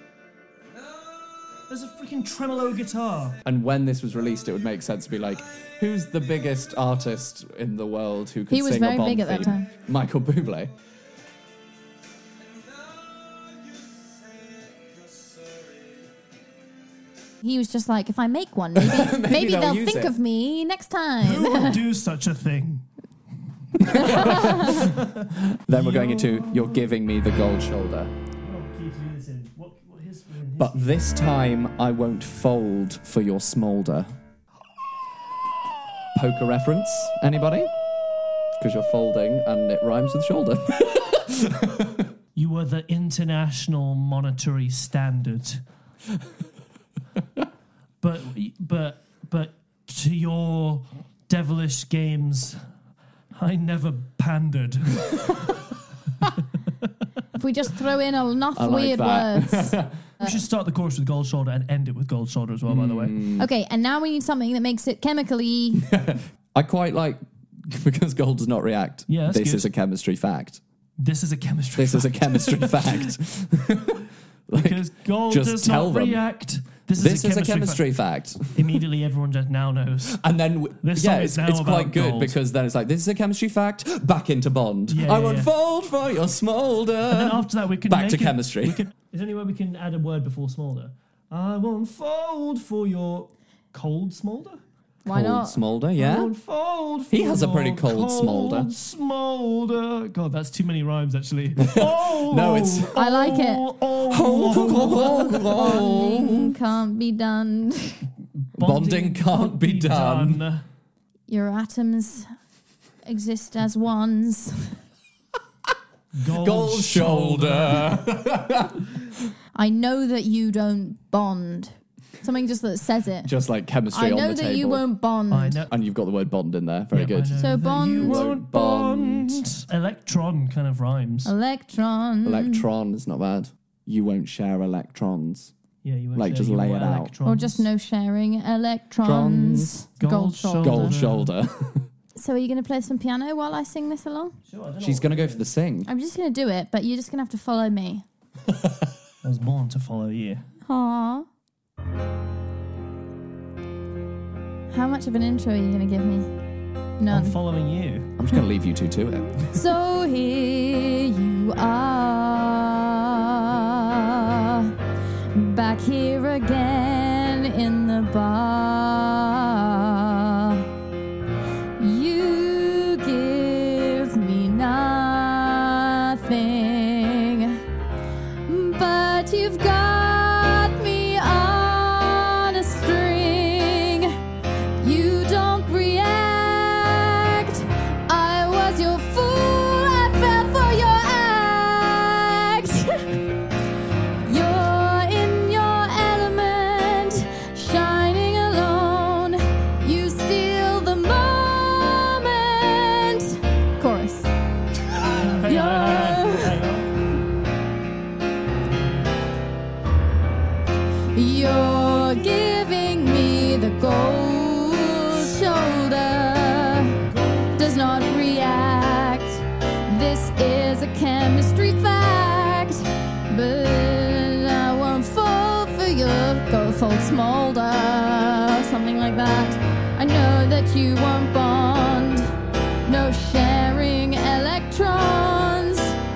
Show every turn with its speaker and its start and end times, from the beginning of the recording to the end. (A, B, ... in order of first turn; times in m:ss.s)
0:01.6-0:03.4 A
0:03.4-0:10.7 B
0:08.5-0:09.7 C
0:17.4-0:21.8 C
0:18.8-0:20.1 B
0:21.2-0:22.9 A
0:23.8-0:28.1 B
0:23.9-0:26.9 A
0:24.0-0:24.9 C
0:28.4-0:30.9 A
0:30.6-0:34.1 B
0:36.1-0:37.7 B
0:38.6-0:42.1 B
0:42.4-0:45.6 A
0:48.0-0:52.6 A
0:53.3-0:55.4 A
0:57.4-1:00.4 C
0:58.6-1:00.0 B
1:00.2-1:03.2 A
1:02.7-1:03.5 B
1:03.4-1:05.9 C
1:05.8-1:10.6 B
1:09.1-1:09.7 A
1:11.0-1:13.1 A
1:11.8-1:16.2 B
1:14.6-1:17.8 A
1:17.0-1:18.6 B
1:18.4-1:20.2 A
1:20.1-1:28.8 B
1:20.8-1:22.4 A
1:24.9-1:25.5 A
1:27.1-1:34.6 A
1:35.0-1:35.6 C
1:35.1-1:36.3 B
1:36.0-1:45.9 A
1:37.1-1:38.7 B
1:41.6-1:42.9 B
1:42.9-1:43.7 C
1:44.1-1:46.5 B
1:44.9-1:48.0 C
1:48.6-1:50.6 A
1:48.6-1:50.4 B
1:51.3-1:52.3 C
1:53.0-1:54.8 C
1:56.1-1:58.0 A
1:56.3-1:58.9 B
1:59.6-2:03.3 C
2:03.2-2:04.8 B
2:03.9-2:05.6 C
2:05.3-2:05.7 A
2:05.7-2:09.6 B
2:06.9-2:11.3 A
2:07.4-2:08.3 C
2:11.2-2:12.6 C
2:12.2-2:15.5 B
2:15.8-2:17.7 A
2:16.1-2:17.1 B
2:17.2-2:21.0 C
2:19.0-2:19.8 B
2:20.0-2:21.3 A
2:20.6-2:21.9 B
2:22.1-2:24.4 C
2:24.5-2:25.5 A
2:24.8-2:25.9 B
2:25.9-2:28.0 C
2:29.2-2:30.5 A
2:30.7-2:31.3 C
2:34.7-2:36.3 C
2:37.0-2:37.4 C
2:37.1-2:38.1 A
2:38.2-2:39.6 B
2:39.5-2:44.7 C
2:45.3-2:50.6 C
2:51.8-2:57.6 C
2:58.4-3:04.2 C
3:04.8-3:13.1 C
3:14.2-3:24.3 C
3:25.1-3:26.9 A
3:25.2-3:26.7 C
3:31.1-3:52.3 C
3:37.1-3:38.0 A
3:52.9-3:56.0 C